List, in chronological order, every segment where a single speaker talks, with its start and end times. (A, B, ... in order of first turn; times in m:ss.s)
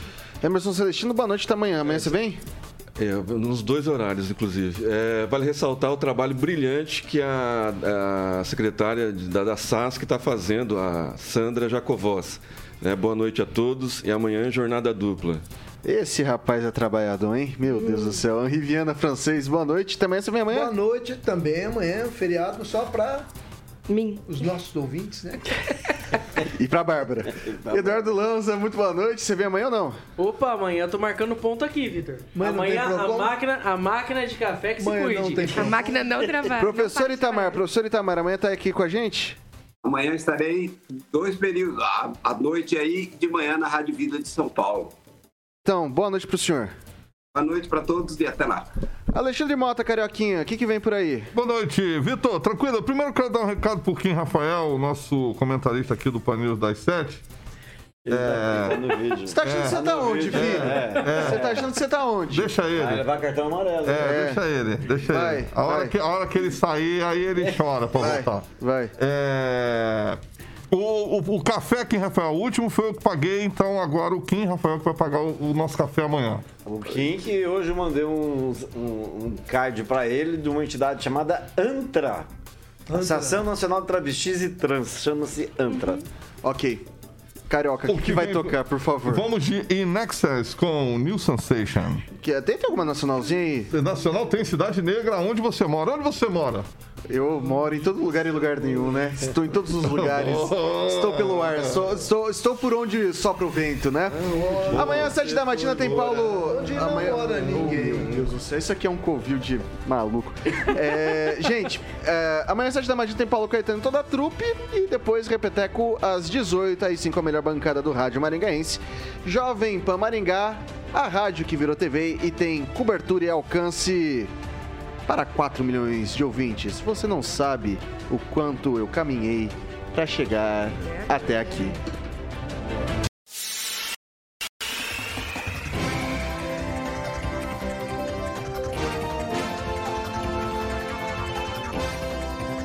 0:00.4-0:02.4 A
0:03.0-0:15.4 B
0:15.8-0:20.7 A
0:17.8-0:18.2 C
0:20.5-0:23.3 D
0:23.9-0:24.2 C
0:24.3-0:25.6 D
0:26.5-0:30.0 A
0:27.4-0:28.0 E
0:30.2-0:35.7 F
0:32.4-0:33.3 D
0:34.8-0:36.1 D
0:35.6-0:37.6 C
0:36.6-0:39.4 A
0:39.8-0:44.9 G
0:45.6-0:46.7 A
0:47.3-0:48.7 G
0:49.1-0:51.3 A
0:51.3-0:57.2 H
0:58.0-1:01.7 E
0:58.1-1:01.6 H
0:59.3-1:02.5 A
1:02.3-1:03.1 H
1:02.7-1:04.4 E
1:03.9-1:10.2 H
1:04.0-1:04.4 A
1:05.0-1:05.9 A
1:07.4-1:08.2 E
1:08.0-1:08.9 A
1:10.7-1:16.4 H
1:16.6-1:22.3 E
1:22.9-1:23.5 D
1:22.9-1:26.1 E
1:26.4-1:26.8 A
1:27.5-1:29.3 A
1:27.9-1:28.5 H
1:29.1-1:32.0 H
1:32.2-1:33.7 A
1:33.7-1:36.7 H
1:37.1-2:04.3 A
1:39.8-1:41.8 H
1:44.3-1:45.1 D
1:44.4-1:46.2 H
1:45.8-1:48.3 D
2:05.1-2:11.8 A
2:11.0-2:11.4 C